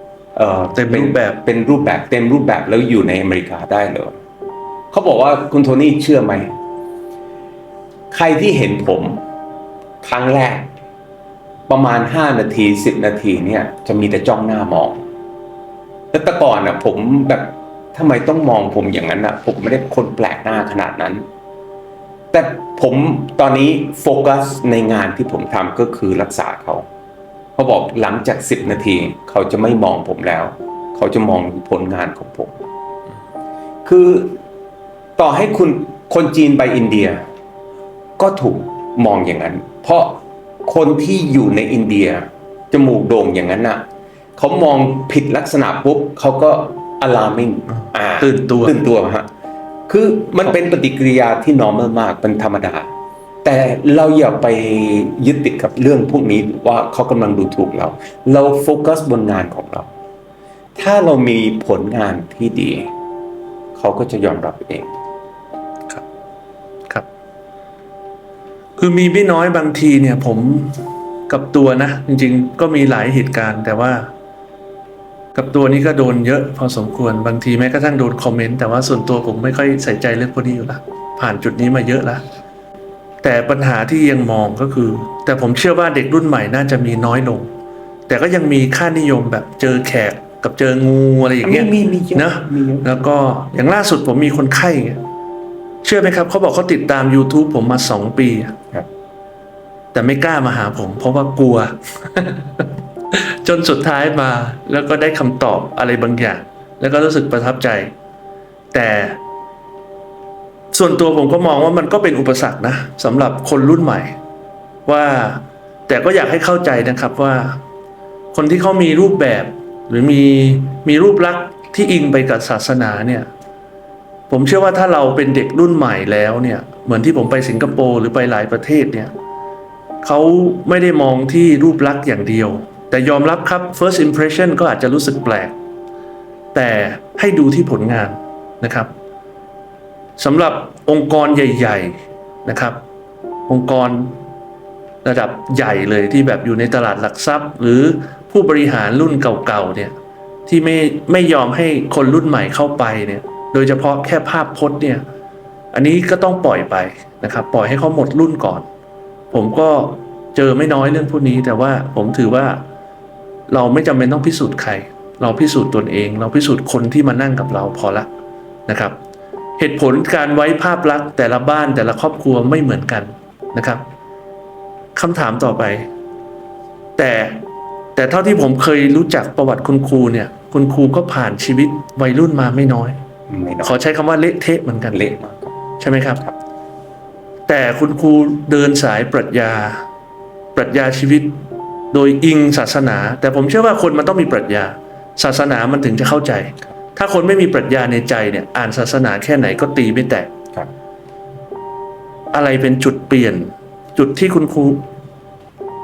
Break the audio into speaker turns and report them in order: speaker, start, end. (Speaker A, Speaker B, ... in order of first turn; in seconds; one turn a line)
Speaker A: 0.3-4.1
Speaker B: 0.7-1.4
Speaker A: 4.9-6.5
Speaker A: 8.1-9.2
Speaker A: 10.0-10.7
Speaker A: 11.7-15.0
Speaker A: 16.1-21.2
Speaker A: 22.3-26.9
Speaker A: 27.6-32.6
Speaker A: 33.9-34.4
Speaker A: 35.2-37.2
Speaker A: 38.2-43.8
Speaker A: 44.4-49.3
Speaker B: 47.7-48.8
Speaker A: 49.9-52.9
Speaker A: 53.4-59.9
Speaker A: 60.8-62.9
Speaker A: 63.8-64.9
Speaker B: 68.8-74.1
Speaker B: 75.3-82.2
Speaker B: 83.2-87.5
Speaker B: 88.1-95.0
Speaker A: 91.4-92.9
Speaker B: 95.8-98.6
Speaker B: 99.9-107.9
Speaker B: 108.7-109.2
Speaker B: 110.7-114.2
Speaker B: 114.9-117.6
Speaker B: 118.3-123.3
Speaker B: 124.3-129.1
Speaker B: 130.0-135.5
Speaker B: 136.5-138.9
Speaker B: 140.2-142.8
Speaker B: 143.5-144.2
Speaker B: 145.0-149.9
Speaker B: 150.5-155.0
Speaker B: 155.7-158.7
Speaker B: 159.3-162.6
Speaker B: 163.5-168.1
Speaker B: 168.7-168.9
Speaker B: 169.6-173.8
Speaker B: 174.9-175.9
Speaker B: 177.0-177.4
Speaker B: 178.0-183.0
Speaker A: 183.3-183.8
Speaker B: 183.6-185.0
Speaker A: 184.9-185.5
Speaker B: 185.8-186.3
Speaker B: 187.5-189.9
Speaker B: 190.6-191.4
Speaker B: 191.9-200.3
Speaker B: 202.3-204.8